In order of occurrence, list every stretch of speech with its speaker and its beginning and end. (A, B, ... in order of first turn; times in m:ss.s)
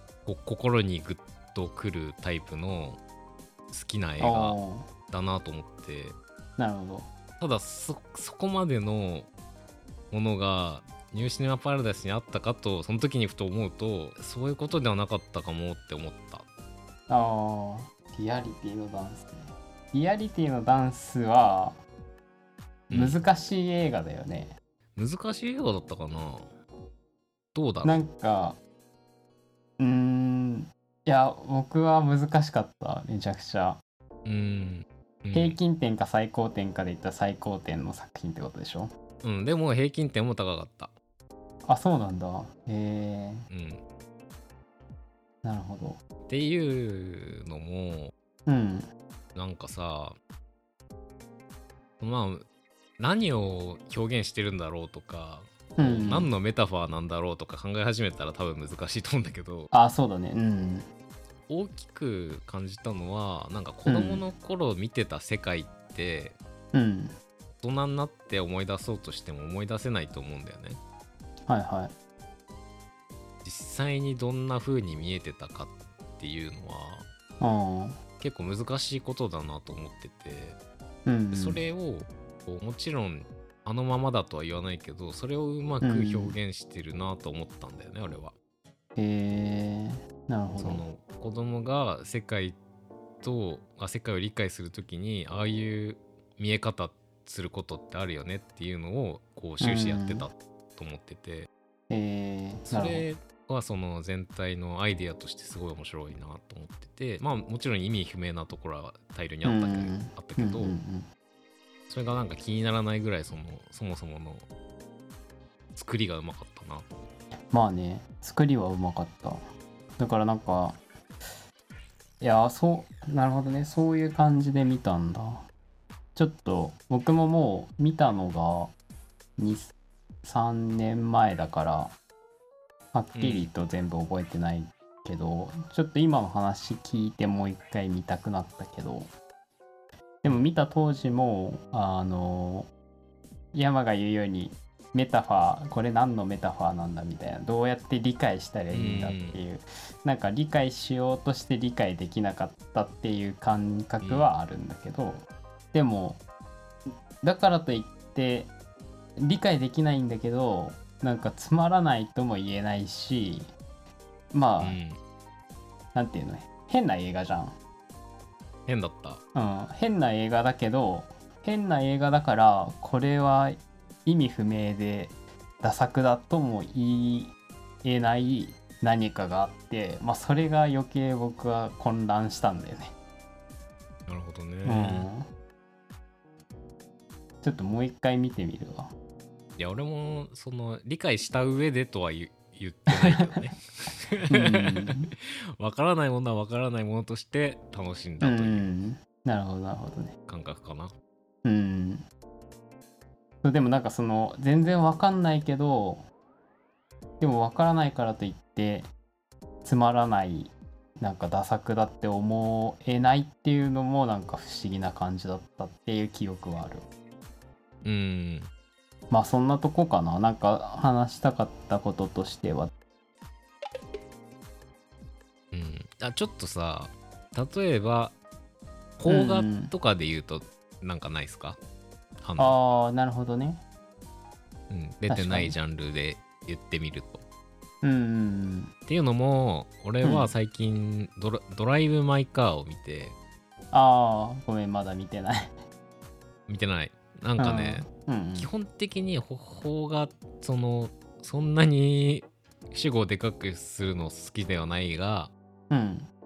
0:00.2-0:03.0 A
0:03.7-0:04.6 A
0:04.2-0:04.9 B
0:05.1-0:06.1 A
0:06.6-0:07.1 B
0:07.4-0:09.3 A
0:10.1-0:16.4 A
0:17.1-0:21.8 B
0:22.9-0:23.2 A
0:22.9-0:24.6 B
0:25.0-0:26.4 A
0:27.5-0:28.0 A
0:27.8-0:28.6 B
0:29.8-0:33.8 B
0:34.2-0:35.6 A
0:35.3-0:38.9 B
0:39.2-0:40.9 A
0:41.7-0:43.5 B
0:43.5-0:43.8 A
0:45.4-0:46.0 B
0:46.3-0:48.1 A
0:48.5-0:48.9 B
0:49.3-0:50.2 A
0:52.0-0:52.4 A
0:53.0-0:59.7 A
0:55.8-0:56.3 B
0:59.7-1:00.9 B
1:01.5-1:06.4 A
1:03.8-1:04.2 B
1:06.7-1:07.2 B
1:07.6-1:10.8 A
1:11.5-1:11.9 B
1:13.4-1:17.0 A
1:17.4-1:18.0 B
1:18.2-1:20.6 A
1:21.0-1:21.6 B
1:21.3-1:28.3 A
1:25.8-1:26.4 B
1:29.0-1:30.8 B
1:30.6-1:32.6 A
1:33.2-1:41.5 A
1:39.6-1:40.3 B
1:41.9-1:43.0 B
1:42.7-1:50.8 A
1:49.4-1:51.1 B
1:51.9-1:54.4 A
1:55.7-1:56.8 A
1:57.5-1:59.4 B
2:00.0-2:00.8 B
2:02.2-2:05.4 B
2:06.1-2:08.7 B
2:09.4-2:09.7 B
2:10.2-2:11.9 B
2:12.9-2:19.1 B
2:13.1-2:13.5 A
2:20.2-2:22.7 B
2:23.5-2:36.2 B
2:28.7-2:29.4 A
2:34.0-2:34.3 A
2:37.2-2:38.5 B
2:39.2-2:43.5 B
2:44.3-2:44.8 B
2:44.6-2:45.0 A
2:45.9-2:47.6 B
2:48.7-2:49.2 A
2:49.3-3:02.9 B
3:04.1-3:05.1 A
3:04.6-3:05.2 B
3:07.4-3:08.9 B
3:09.6-3:18.7 A
3:13.0-3:13.2 B
3:14.3-3:15.1 B
3:18.2-3:20.1 B
3:20.3-3:20.9 A
3:21.4-3:22.0 B
3:23.4-3:26.0 B
3:27.2-3:28.9 B
3:29.6-3:36.8 B
3:37.8-3:38.5 A
3:39.1-3:42.7 B
3:45.5-3:48.1 A
3:49.0-3:51.6 A
3:49.1-3:49.7 B
3:52.2-3:52.6 A
3:52.4-3:53.6 B
3:54.7-3:57.2 A
3:55.1-3:55.5 B
3:57.8-3:58.7 B
3:58.9-4:03.2 A
4:00.0-4:00.3 B
4:03.7-4:05.5 B
4:06.5-4:15.3 A
4:07.4-4:08.5 B
4:15.7-4:16.1 B